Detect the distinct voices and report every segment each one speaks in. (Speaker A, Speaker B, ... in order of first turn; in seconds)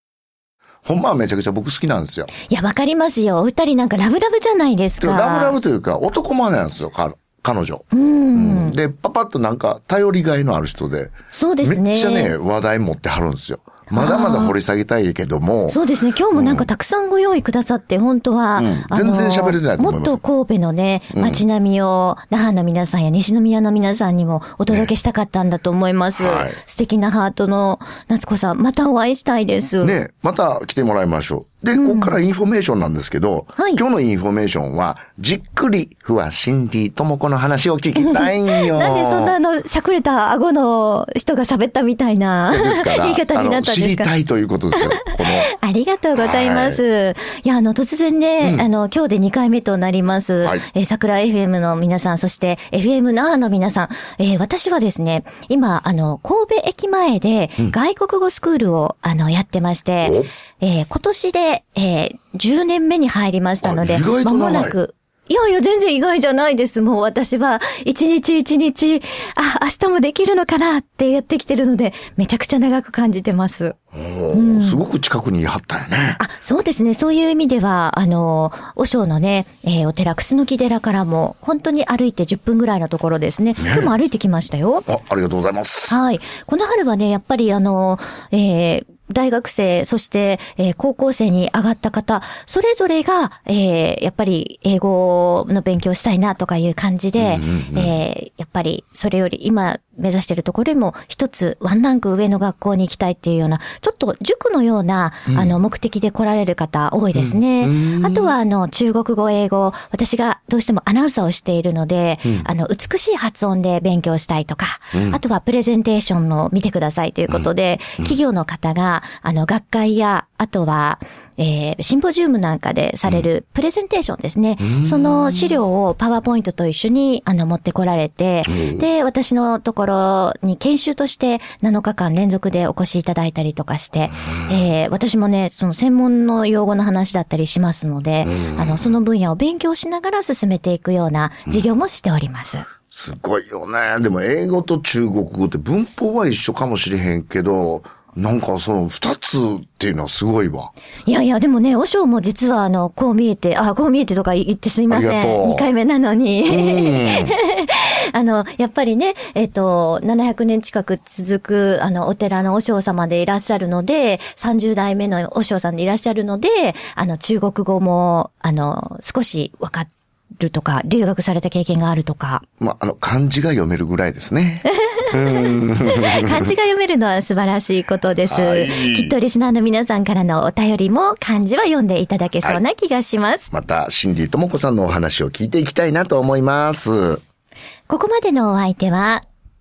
Speaker A: 0.8-2.3, 5.0-15.8, 16.4-16.7, 18.6-20.2, 21.1-21.4, 26.2-26.6, 29.8-39.4, 42.5-45.5, 46.2-46.8, 48.4-48.7, 60.0-60.3, 63.6-64.8, 73.9-76.2, 83.6-83.9, 84.9-86.0, 97.2-97.9, 105.3-105.5, 107.2-108.3, 114.9-115.2, 124.6-125.6, 128.5-128.8, 138.2-138.9, 142.9-150.7, 154.9-155.7, 156.4-157.4, 172.6-176.5, 178.3-179.1, 183.5-187.2
Speaker B: 2.5-5.6, 7.9-8.8, 11.3-12.3, 13.9-14.6, 15.7-30.0, 31.8-32.2, 33.6-33.8, 38.0-44.1, 44.8-73.8, 74.3-74.8, 76.2-84.9, 85.9-142.7, 151.1-169.9, 170.4-172.4, 174.8-183.5, 187.9-189.2